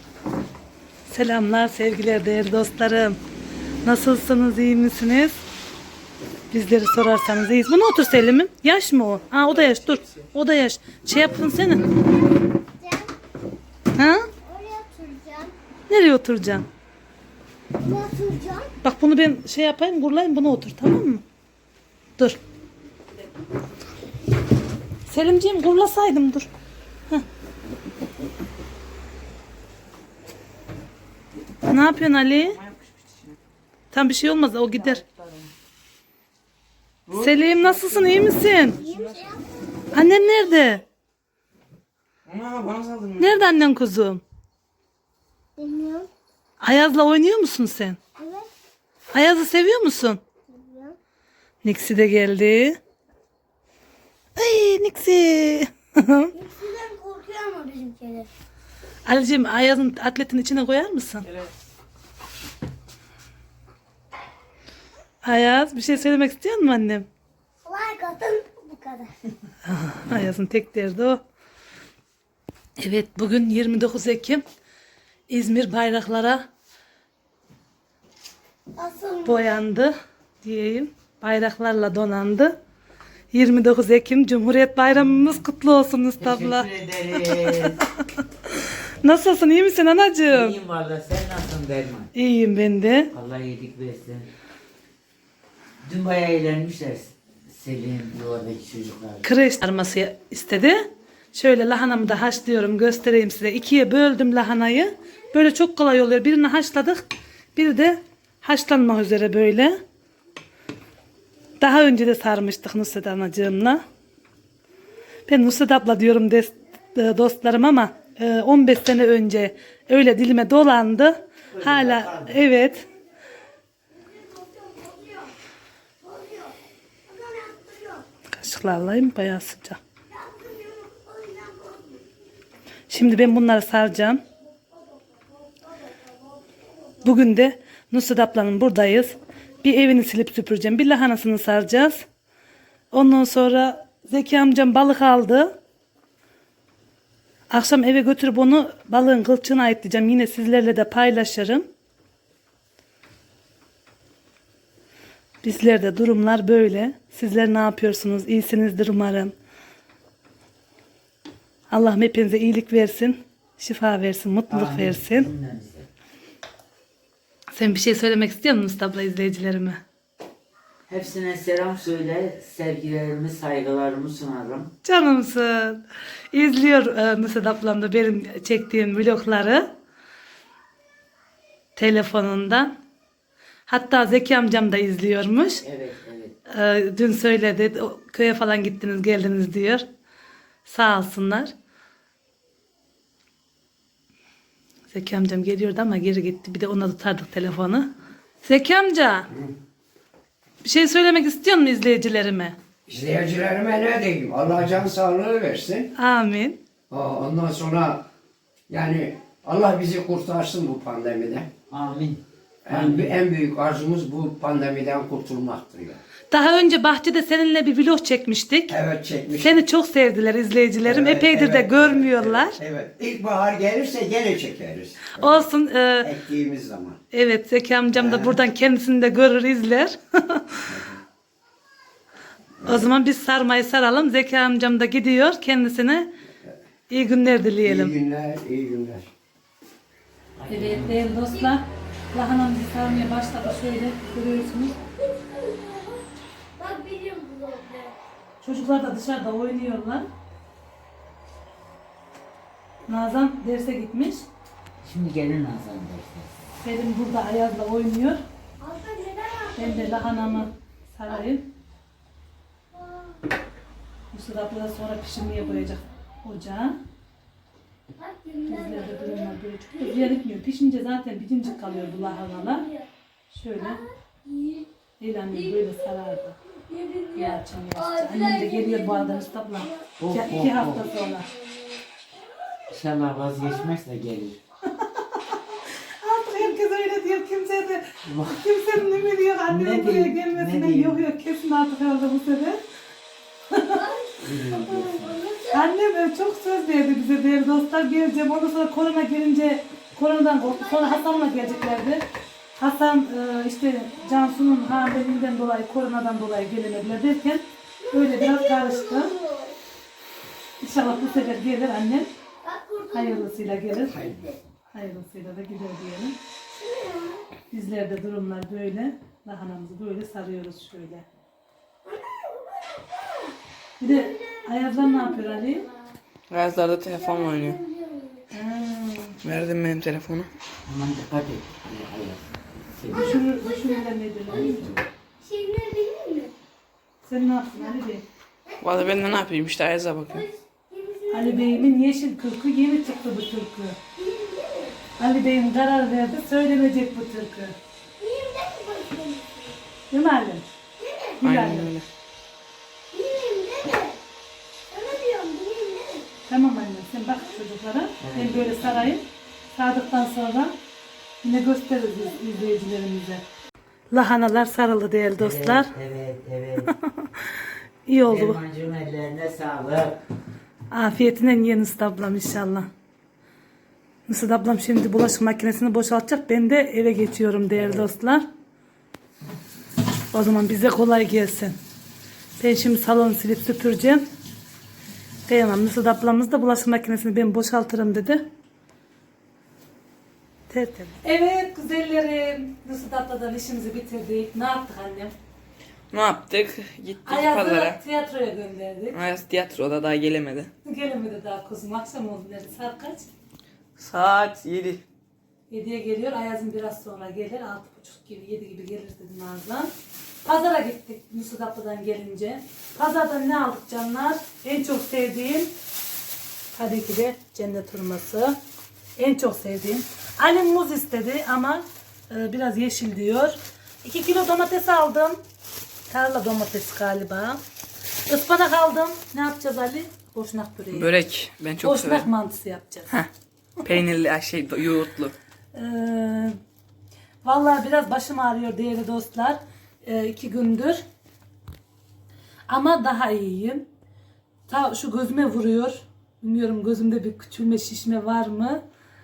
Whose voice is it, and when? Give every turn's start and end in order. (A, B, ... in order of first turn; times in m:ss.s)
0:01.1-0:03.2 A
0:03.8-0:05.4 A
0:06.5-0:11.9 A
0:11.9-0:13.1 B
0:14.0-0:14.3 A
0:14.4-0:15.5 B
0:15.9-0:16.7 A
0:17.8-0:18.7 B
0:18.8-0:21.2 A
0:25.1-0:26.5 A
0:31.7-0:32.6 A
0:32.5-0:33.4 C
0:33.9-0:35.0 A
0:34.7-0:35.5 C
0:37.1-0:39.3 C
0:37.2-0:38.8 A
0:38.8-0:39.4 B
0:39.9-0:40.8 A
0:42.3-0:43.5 C
0:43.2-0:44.2 A
0:45.6-0:46.1 B
0:46.6-0:48.0 A
0:48.2-0:48.5 B
0:49.1-0:50.2 A
0:50.5-0:51.0 B
0:51.6-0:52.8 A
0:54.4-0:56.3 A
0:56.3-0:58.3 B
0:59.1-1:01.3 A
1:05.2-1:07.1 A
1:07.6-1:09.2 B
1:09.7-1:11.2 A
1:12.8-1:14.4 A
1:15.3-1:16.5 A
1:18.8-1:19.4 B
1:19.2-1:22.6 A
1:23.3-1:26.7 A
1:26.2-1:27.8 D
1:27.5-1:28.0 A
1:29.0-1:30.6 A
1:30.3-1:32.1 D
1:32.2-1:33.1 A
1:33.1-1:34.3 D
1:35.8-1:39.3 D
1:39.2-1:49.8 A
1:51.6-1:53.8 A
1:55.3-2:02.8 A
2:01.5-2:02.4 D
2:04.1-2:05.3 B
2:06.0-2:06.6 B
2:07.1-2:08.0 B
2:08.3-2:09.8 A
2:10.1-2:12.0 B
2:12.9-2:14.2 A
2:15.6-2:16.2 B
2:17.0-2:22.0 A
2:22.9-2:25.6 A
2:27.5-2:31.7 A
2:35.4-2:39.3 A
2:41.7-2:45.3 A
2:44.5-2:45.9 D
2:47.5-2:49.8 A
2:50.9-2:54.7 D
2:54.8-2:59.7 A
3:01.8-3:02.8 A
3:03.7-3:05.6 A
3:05.6-3:06.4 D
3:06.5-3:09.9 A
3:10.6-3:11.5 A
3:14.9-3:17.9 A
3:18.4-3:19.3 A
3:20.6-3:22.6 A
3:22.9-3:25.9 E
3:26.0-3:26.6 A
3:26.9-3:28.1 E
3:28.7-3:31.5 E
3:31.7-3:33.2 D
3:32.7-3:36.0 E
3:36.3-3:38.7 A
3:38.7-3:39.6 E
3:39.4-3:42.6 A
3:40.8-3:45.5 E
3:45.1-3:46.1 A
3:46.0-3:47.0 E
3:47.1-3:50.6 A
3:47.9-3:48.4 E
3:50.7-3:51.0 E
3:52.6-3:56.1 A
3:56.9-3:57.9 A
3:57.6-3:59.1 E
4:00.4-4:01.1 D
4:00.5-4:04.8 A
4:05.0-4:06.0 B
4:06.6-4:08.0 B
4:08.4-4:10.1 A
4:12.9-4:14.3 A
4:14.8-4:16.4 D
4:16.6-4:18.2 A
4:18.6-4:20.5 B
4:19.6-4:21.5 A
4:22.7-4:23.2 B
4:24.1-4:26.8 A
4:25.3-4:25.6 B
4:28.0-4:30.2 B
4:28.5-4:32.7 A
4:31.5-4:32.9 B
4:33.3-4:33.8 A
4:33.6-4:34.7 B
4:35.0-4:36.4 A
4:35.3-4:35.9 B
4:36.5-4:39.9 B
4:37.1-4:41.3 A
4:40.0-4:40.9 D
4:40.6-4:41.8 B
4:42.7-4:44.4 D
4:46.0-4:52.6 A
4:48.0-4:48.4 D
4:49.5-4:51.0 D
4:53.5-4:53.8 A
4:53.7-4:55.6 B
4:54.2-4:55.1 D
4:55.5-5:02.0 A
5:00.4-5:01.9 B
5:02.6-5:09.1 A
5:04.0-5:04.8 B
5:07.8-5:09.6 B
5:10.6-5:12.1 A
5:10.8-5:11.4 B
5:12.4-5:14.4 B
5:12.9-5:14.0 A
5:14.7-5:16.2 A
5:16.5-5:17.3 B
5:17.5-5:21.1 A
5:21.8-5:26.0 B
5:23.8-5:25.6 A
5:26.3-5:27.6 C
5:26.8-5:28.3 B
5:28.3-5:29.2 A
5:29.2-5:30.3 C
5:30.7-5:33.2 D
5:32.9-5:34.7 A
5:32.9-5:36.3 B
5:34.4-5:34.8 D
5:37.0-5:38.0 A
5:38.5-5:39.2 B
5:38.6-5:40.3 C
5:40.1-5:41.7 B
5:41.1-5:43.8 A
5:44.0-5:44.8 B
5:45.0-5:47.6 A
5:48.0-5:49.6 B
5:49.9-5:50.5 A
5:50.8-5:51.2 B
5:51.2-5:51.7 A
5:51.2-5:51.8 C
5:52.9-5:54.0 B
5:54.7-5:56.1 B
5:56.3-6:00.6 A
5:58.0-5:59.0 D
6:01.2-6:03.2 A
6:03.9-6:05.7 A
6:05.2-6:06.7 D
6:06.6-6:07.1 A
6:07.9-6:08.4 A
6:08.0-6:10.0 D
6:10.7-6:12.7 A
6:14.1-6:18.3 A
6:17.6-6:17.8 D
6:20.1-6:21.6 A
6:22.4-6:24.1 A
6:25.3-6:28.3 A
6:30.5-6:35.2 A
6:35.9-6:37.8 C
6:37.0-6:39.0 A
6:38.9-6:40.5 C
6:40.6-6:43.1 A
6:43.8-6:44.8 C
6:45.5-6:49.7 A
6:50.2-6:55.5 A
6:56.5-6:58.4 A
6:59.0-7:05.2 A
7:05.9-7:07.4 A
7:08.1-7:11.0 A
7:10.7-7:12.1 C
7:11.6-7:12.9 A
7:13.6-7:15.2 C
7:15.5-7:16.4 A
7:17.2-7:20.8 A
7:22.5-7:23.7 A
7:24.5-7:28.6 A